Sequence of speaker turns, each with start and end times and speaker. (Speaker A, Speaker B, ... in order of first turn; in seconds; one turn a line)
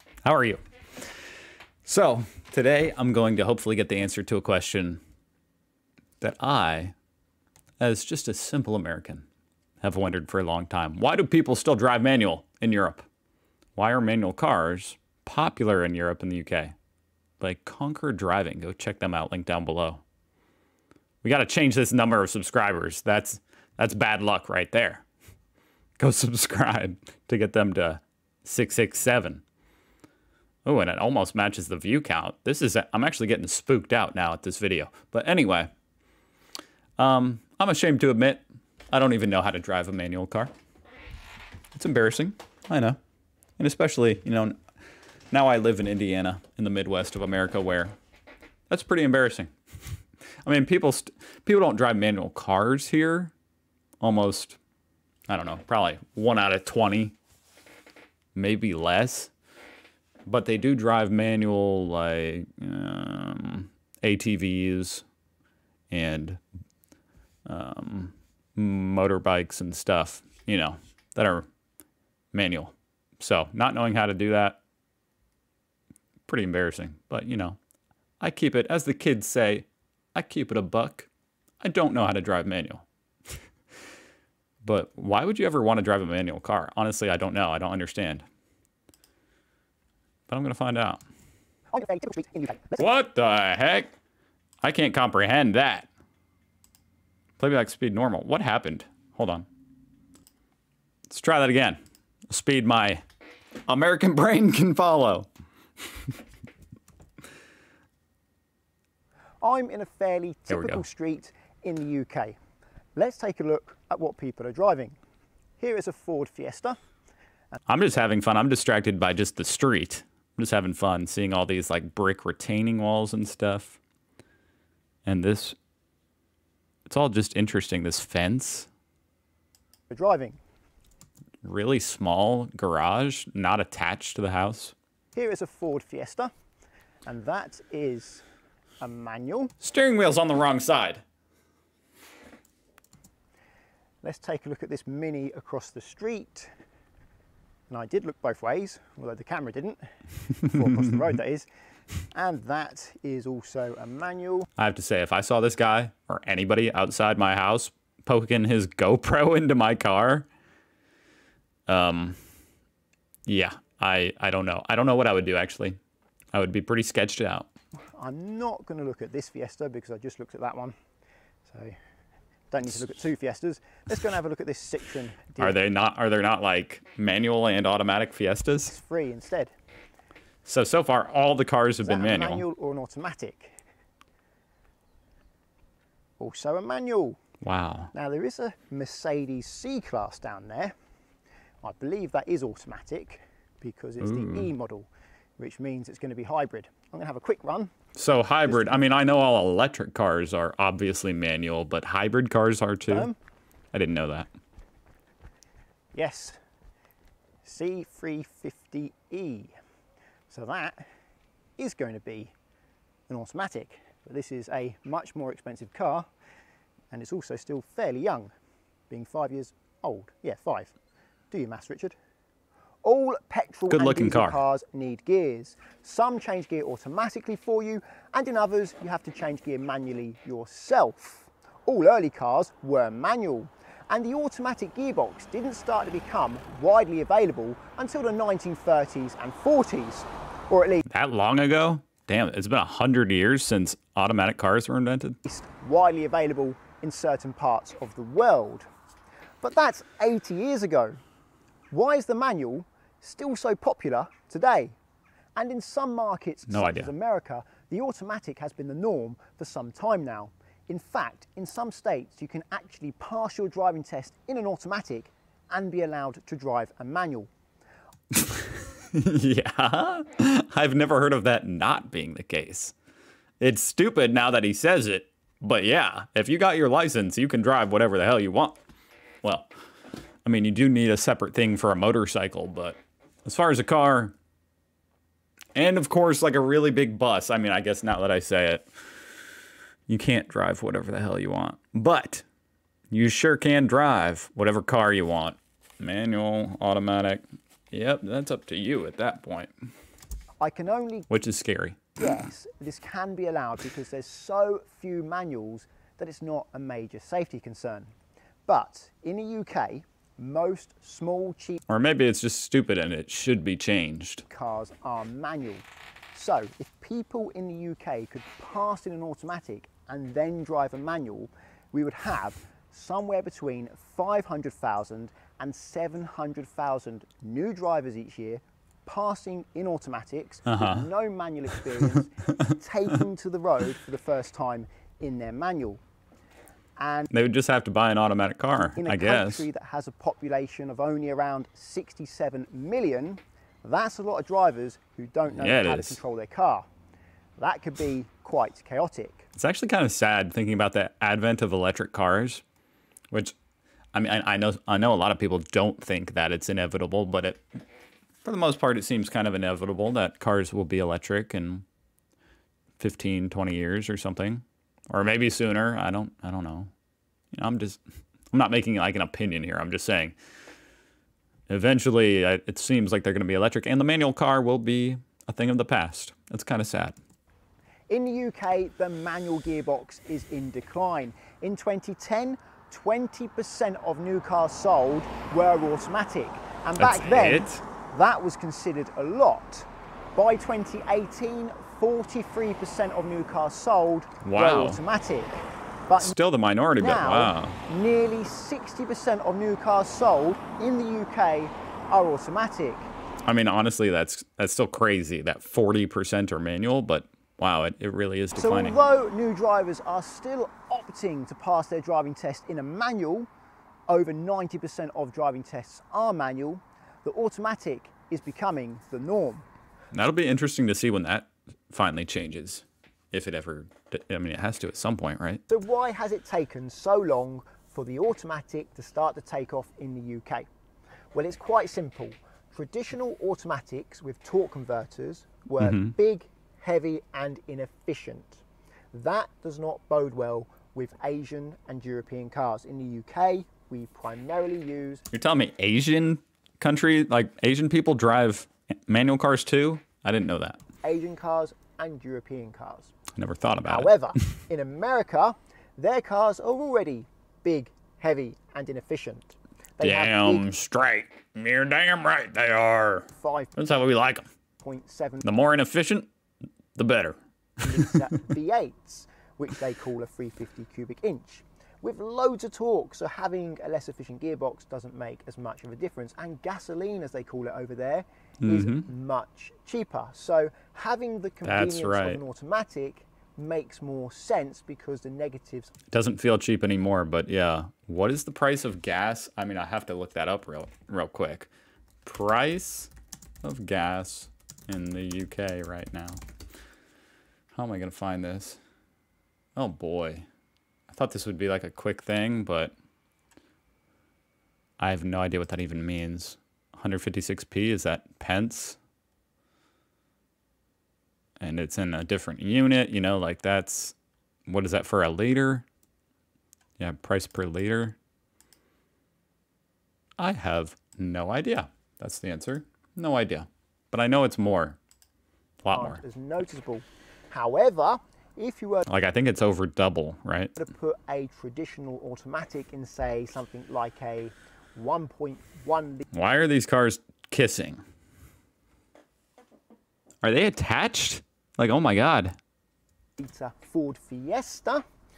Speaker A: 0.2-1.1
Speaker A: 1.9-5.0
Speaker A: 6.2-6.9
Speaker A: 7.8-9.3
Speaker A: 9.8-13.1
Speaker A: 13.8-16.7
Speaker A: 17.4-20.0
Speaker A: 21.2-25.1
Speaker A: 26.0-29.4
Speaker A: 30.6-35.7
Speaker A: 37.0-40.5
Speaker A: 41.7-43.0
Speaker A: 43.6-44.6
Speaker A: 45.3-47.9
Speaker A: 48.7-49.5
Speaker A: 50.4-53.3
Speaker A: 54.0-54.6
Speaker A: 55.3-57.1
Speaker A: 58.4-59.3
Speaker A: 60.3-65.0
Speaker A: 65.9-66.4
Speaker A: 67.5-71.5
Speaker A: 72.3-74.6
Speaker A: 76.3-77.6
Speaker A: 78.2-81.1
Speaker A: 81.6-82.8
Speaker A: 84.6-88.2
Speaker A: 90.3-91.0
Speaker B: 91.7-92.8
Speaker A: 92.8-93.9
Speaker A: 94.6-95.9
Speaker A: 97.4-99.5
Speaker A: 101.1-101.8
Speaker A: 102.3-103.0
Speaker A: 103.7-105.3
Speaker B: 109.4-112.4
Speaker A: 110.5-110.8
Speaker B: 113.0-115.0
Speaker B: 115.6-116.8
Speaker A: 117.7-123.8
Speaker A: 125.1-125.6
Speaker A: 126.9-128.7
Speaker B: 129.9-130.4
Speaker A: 131.4-134.8
Speaker B: 135.1-136.3
Speaker B: 137.1-138.2
Speaker B: 138.8-139.5
Speaker A: 139.6-141.0
Speaker B: 144.0-146.5
Speaker B: 147.7-151.5
Speaker B: 152.1-154.5
Speaker A: 154.6-160.3
Speaker A: 161.7-162.2
Speaker A: 163.3-165.8
Speaker A: 166.3-167.5
Speaker B: 168.0-170.8
Speaker B: 171.4-171.8
Speaker B: 172.5-175.6
Speaker A: 175.4-178.7
Speaker B: 178.7-179.5
Speaker A: 180.4-182.4
Speaker B: 181.8-183.5
Speaker B: 186.2-187.2
Speaker A: 187.4-187.9
Speaker B: 187.9-190.7
Speaker B: 191.6-197.7
Speaker A: 194.0-194.5
Speaker A: 197.9-203.1
Speaker B: 198.5-198.8
Speaker B: 202.9-203.2
Speaker A: 203.7-204.3
Speaker B: 205.9-206.4
Speaker B: 207.4-209.5
Speaker B: 210.3-210.8
Speaker B: 211.6-212.3
Speaker B: 213.1-216.1
Speaker B: 216.9-218.3
Speaker B: 218.9-220.8
Speaker B: 221.3-222.0
Speaker B: 222.8-240.8
Speaker A: 223.7-224.4
Speaker A: 240.9-245.2
Speaker B: 245.2-248.7
Speaker B: 249.4-251.0
Speaker B: 251.7-254.8
Speaker B: 255.3-267.3
Speaker A: 256.5-256.9
Speaker A: 268.2-272.7
Speaker A: 273.4-278.6
Speaker A: 279.2-279.5
Speaker A: 280.2-284.1
Speaker A: 285.6-288.7
Speaker A: 289.9-292.2
Speaker A: 292.9-299.5
Speaker B: 300.4-301.1
Speaker A: 301.1-302.0
Speaker B: 302.0-307.9
Speaker B: 308.5-311.6
Speaker A: 311.7-314.2
Speaker B: 314.3-335.8
Speaker A: 330.5-330.9
Speaker B: 336.8-337.1
Speaker A: 337.1-339.5
Speaker B: 338.7-346.7
Speaker A: 345.3-346.0
Speaker B: 347.4-349.3
Speaker A: 349.4-352.4
Speaker A: 353.9-357.4
Speaker A: 358.2-361.6
Speaker A: 362.8-366.7
Speaker A: 367.3-367.8
Speaker A: 368.3-370.2
Speaker A: 371.5-377.0
Speaker B: 377.9-396.2
Speaker A: 386.8-387.6
Speaker A: 394.2-394.8
Speaker A: 396.0-397.6
Speaker B: 396.8-402.9
Speaker A: 403.3-408.8
Speaker B: 408.4-413.3
Speaker B: 413.9-419.4
Speaker A: 419.9-425.4
Speaker B: 425.5-430.5
Speaker B: 431.1-445.1
Speaker A: 435.6-435.9
Speaker A: 445.1-450.6
Speaker B: 450.8-452.9
Speaker A: 453.2-454.4
Speaker B: 453.6-460.5
Speaker A: 459.8-464.2
Speaker B: 463.2-463.6
Speaker B: 464.6-465.3
Speaker A: 465.2-466.1
Speaker A: 466.8-467.9
Speaker B: 467.6-485.7
Speaker A: 478.4-478.9
Speaker A: 481.4-482.2
Speaker A: 485.9-491.5
Speaker A: 492.1-492.9
Speaker A: 493.4-496.2
Speaker A: 497.5-498.6
Speaker A: 499.6-500.3
Speaker A: 500.9-502.8
Speaker A: 504.8-508.8
Speaker A: 511.4-514.0
Speaker A: 514.5-515.7
Speaker A: 516.8-518.0
Speaker A: 520.2-524.8
Speaker A: 525.6-526.0
Speaker B: 525.7-528.9
Speaker A: 528.9-530.7
Speaker B: 530.6-536.1
Speaker A: 536.1-537.8
Speaker A: 540.2-542.3
Speaker B: 543.2-544.8